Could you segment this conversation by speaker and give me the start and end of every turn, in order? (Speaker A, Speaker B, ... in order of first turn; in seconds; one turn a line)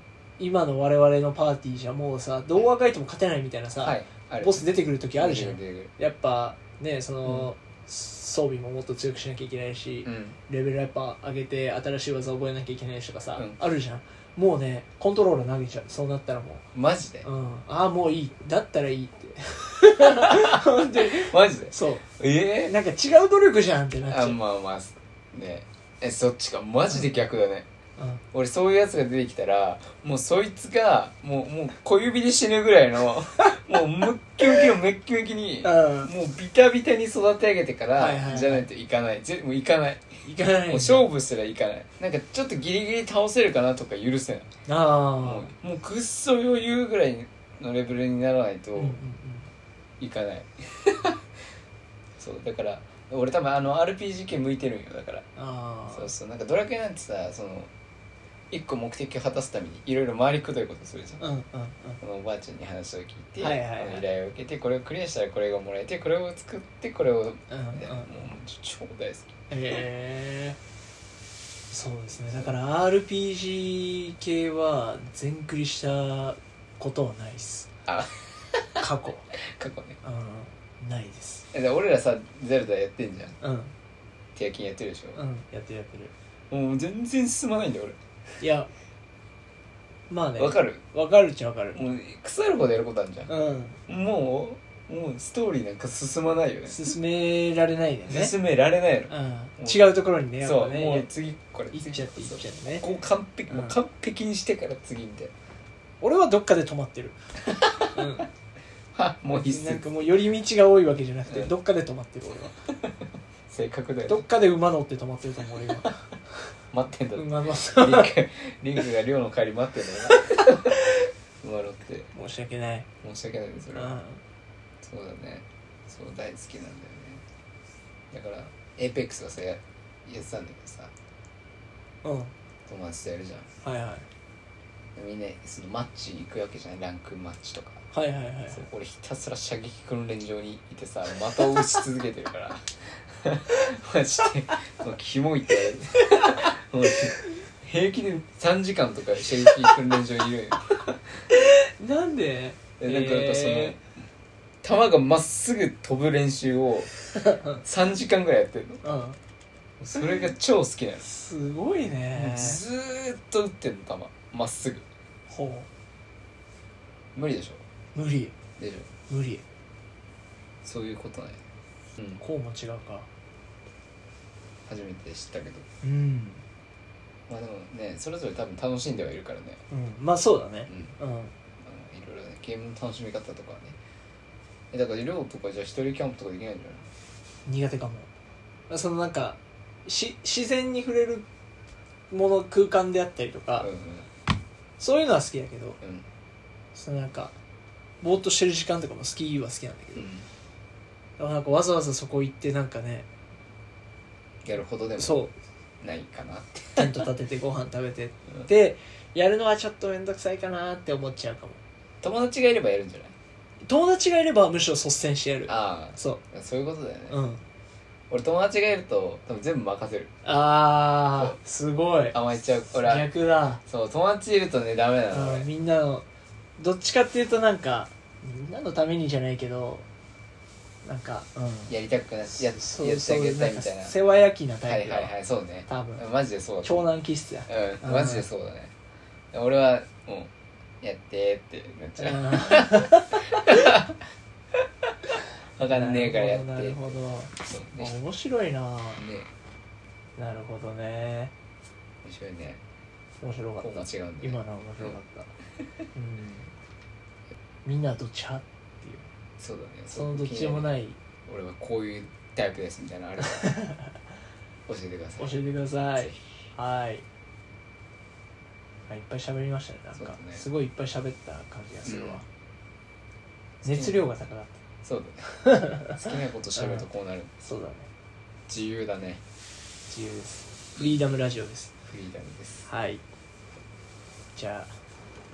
Speaker A: 0.4-16.6
Speaker B: 3.8-4.6
Speaker B: 5.1-5.9
Speaker B: 7.2-7.5
Speaker B: 10.0-10.4
Speaker B: 16.7-17.3
Speaker A: 17.2-22.1
Speaker B: 20.0-22.7
Speaker A: 22.6-24.4
Speaker B: 24.1-27.7
Speaker A: 28.0-28.2
Speaker B: 28.3-44.5
Speaker A: 35.6-36.1
Speaker A: 38.0-38.7
Speaker A: 40.2-41.1
Speaker A: 44.7-45.5
Speaker B: 45.2-49.0
Speaker A: 48.8-49.5
Speaker B: 50.0-51.2
Speaker B: 52.2-55.2
Speaker A: 55.4-56.1
Speaker B: 55.9-57.7
Speaker B: 58.5-61.2
Speaker A: 61.2-62.0
Speaker B: 62.0-69.4
Speaker A: 63.4-64.0
Speaker A: 67.5-68.1
Speaker A: 69.5-70.6
Speaker A: 71.7-77.7
Speaker B: 77.9-78.8
Speaker A: 78.8-79.3
Speaker B: 79.4-80.0
Speaker A: 80.0-81.4
Speaker B: 81.5-83.3
Speaker A: 83.4-83.7
Speaker B: 84.3-85.2
Speaker A: 85.2-86.1
Speaker B: 86.5-88.0
Speaker A: 88.4-88.7
Speaker A: 90.1-91.8
Speaker B: 90.4-90.8
Speaker B: 91.7-93.3
Speaker A: 93.3-93.8
Speaker B: 93.9-96.8
Speaker A: 96.7-98.3
Speaker B: 98.1-105.3
Speaker A: 99.1-101.1
Speaker A: 101.7-102.8
Speaker A: 103.5-103.8
Speaker A: 106.0-107.2
Speaker B: 107.5-108.0
Speaker A: 107.9-108.3
Speaker B: 108.9-109.8
Speaker A: 109.3-112.5
Speaker B: 113.5-114.2
Speaker A: 114.1-116.4
Speaker B: 116.7-120.9
Speaker A: 117.1-118.1
Speaker A: 120.0-121.0
Speaker B: 121.4-122.1
Speaker A: 122.1-122.9
Speaker B: 123.0-124.0
Speaker A: 123.7-124.2
Speaker B: 124.8-127.2
Speaker B: 128.1-130.9
Speaker A: 132.0-132.3
Speaker B: 132.7-133.5
Speaker A: 133.6-134.1
Speaker B: 134.9-137.8
Speaker A: 137.9-138.6
Speaker B: 138.5-151.2
Speaker A: 151.3-153.8
Speaker B: 152.8-153.9
Speaker B: 154.6-156.9
Speaker A: 157.2-157.6
Speaker B: 157.6-158.8
Speaker A: 158.8-159.2
Speaker B: 159.8-161.0
Speaker A: 161.0-162.6
Speaker B: 162.1-164.8
Speaker A: 165.3-165.7
Speaker B: 167.1-167.6
Speaker A: 167.9-168.3
Speaker B: 168.6-168.9
Speaker A: 169.1-169.4
Speaker B: 170.6-171.4
Speaker A: 172.2-173.1
Speaker B: 174.7-175.7
Speaker A: 175.8-176.4
Speaker B: 177.3-179.6
Speaker A: 179.7-181.3
Speaker B: 180.7-180.9
Speaker B: 181.6-183.8
Speaker B: 184.7-186.9
Speaker A: 187.4-188.1
Speaker A: 188.7-191.2
Speaker A: 192.1-193.7
Speaker B: 193.6-194.1
Speaker A: 194.8-195.8
Speaker B: 195.8-196.1
Speaker A: 196.7-197.3
Speaker A: 198.0-200.1
Speaker B: 199.9-200.2
Speaker A: 201.2-203.1
Speaker B: 204.4-205.2
Speaker A: 205.0-205.3
Speaker B: 205.8-207.1
Speaker A: 206.8-211.6
Speaker B: 212.0-213.1
Speaker A: 213.6-216.2
Speaker B: 215.5-217.2
Speaker A: 217.1-217.4
Speaker B: 218.1-220.1
Speaker A: 220.2-222.2
Speaker B: 222.1-223.1
Speaker A: 222.8-223.6
Speaker B: 223.6-225.5
Speaker A: 225.1-226.1
Speaker A: 226.6-229.8
Speaker A: 230.8-231.7
Speaker B: 231.7-233.9
Speaker A: 232.4-235.1
Speaker B: 234.6-236.9
Speaker A: 235.7-236.0
Speaker A: 236.6-238.2
Speaker B: 237.5-238.7
Speaker B: 239.3-244.0
Speaker A: 242.0-243.5
Speaker B: 244.5-244.9
Speaker B: 245.6-247.9
Speaker A: 245.7-249.0
Speaker B: 248.9-249.3
Speaker A: 250.2-251.3
Speaker B: 252.0-252.6
Speaker A: 253.2-255.3
Speaker B: 253.6-254.9
Speaker A: 255.9-256.5
Speaker A: 257.6-259.1
Speaker B: 259.4-260.7
Speaker A: 259.9-261.0
Speaker B: 261.2-263.6
Speaker A: 263.2-264.0
Speaker B: 264.7-265.4
Speaker A: 265.2-267.0
Speaker A: 268.9-272.2
Speaker B: 269.9-270.4
Speaker B: 271.8-272.2
Speaker A: 273.6-274.6
Speaker B: 273.6-274.1
Speaker B: 274.8-277.3
Speaker A: 275.2-276.9
Speaker A: 277.4-277.9
Speaker B: 278.5-279.2
Speaker A: 279.9-281.7
Speaker B: 281.8-282.6
Speaker A: 282.7-283.0
Speaker A: 284.4-284.7